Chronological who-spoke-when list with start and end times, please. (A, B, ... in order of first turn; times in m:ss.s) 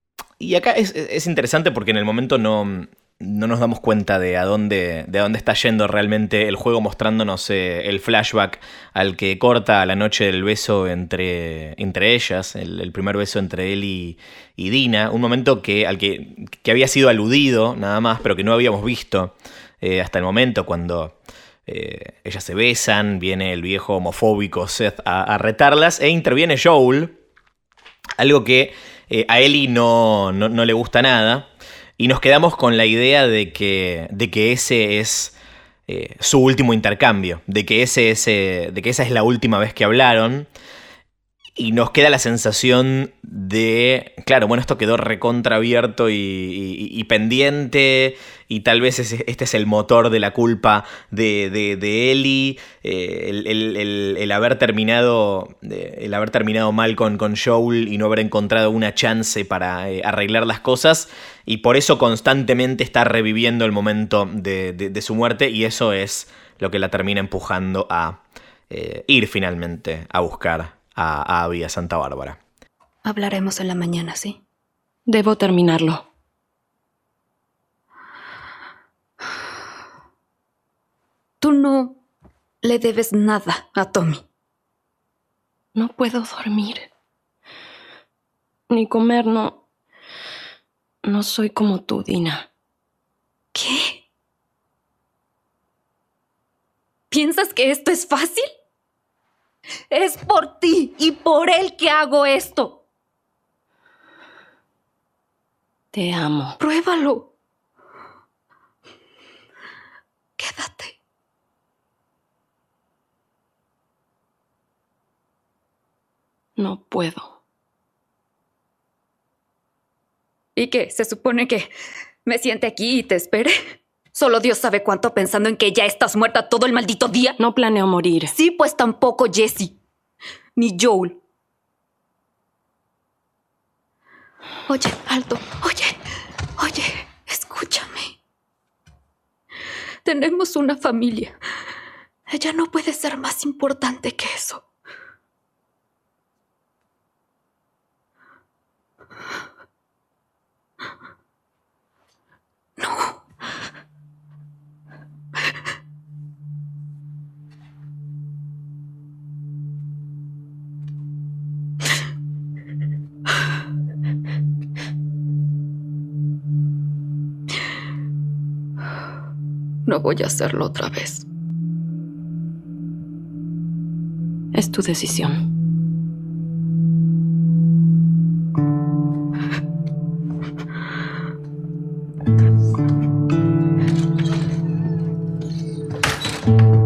0:00.4-0:27.2 A
0:28.2-0:31.5 A
0:32.0-0:35.3 A
0:35.9-0:40.5 A
0:41.6-1:12.4 A
1:13.1-1:14.3 B
1:15.1-1:16.0 C
1:21.4-1:22.0 B
1:22.6-1:24.2 B
1:25.8-1:26.9 C
1:28.7-1:29.6 C
1:31.0-1:32.5 C
1:37.1-1:38.5 B
1:39.9-1:42.8 B
1:45.9-1:46.6 C
1:46.6-1:47.3 B
1:50.4-1:51.0 B
1:56.6-1:57.3 C
2:00.6-2:01.7 B
2:02.3-2:07.4 B
2:07.4-2:08.3 C
2:08.3-2:09.8 B
2:10.6-2:11.2 B
2:14.7-2:16.0 B
2:16.6-2:18.1 B
2:20.0-2:21.4 B
2:22.3-2:24.6 B
2:32.8-2:33.1 B
2:49.9-2:51.2 B
2:54.5-2:55.4 C